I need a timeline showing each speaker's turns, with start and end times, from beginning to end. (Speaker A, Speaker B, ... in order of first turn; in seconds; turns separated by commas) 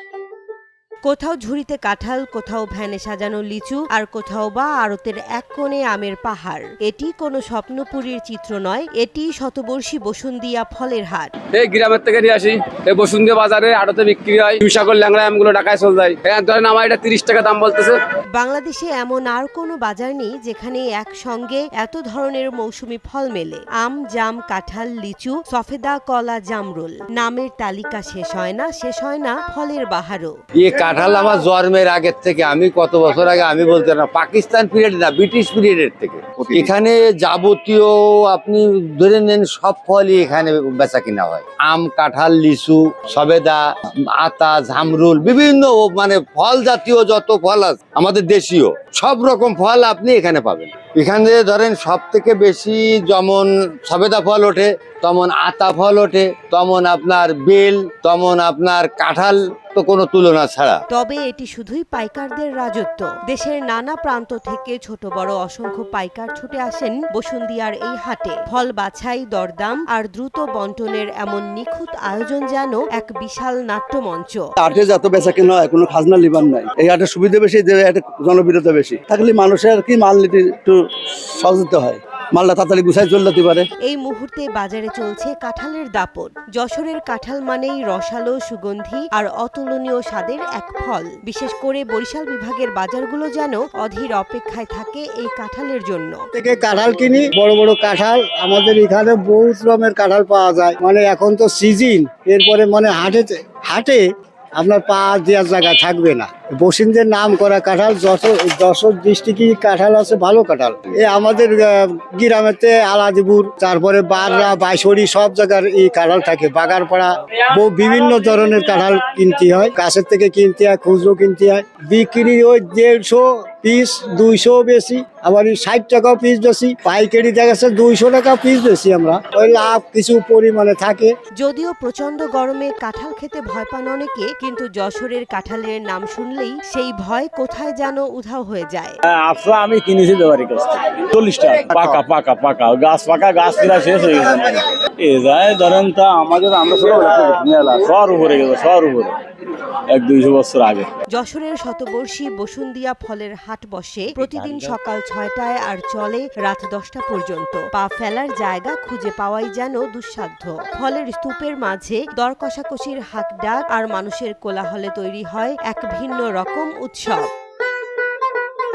Speaker A: 1.1-11.3, Speaker B: 11.5-18.0, Speaker A: 18.4-30.4, Speaker C: 30.6-43.6, Speaker C: 44.2-60.8, Speaker A: 60.9-74.4, Speaker D: 74.6-83.7, Speaker A: 83.8-96.2, Speaker E: 96.3-104.0, Speaker E: 104.6-131.1, Speaker A: 131.4-139.0, Speaker F: 139.1-149.1, Speaker F: 149.9-150.9, Speaker A: 151.1-167.3, Speaker F: 154.2-154.8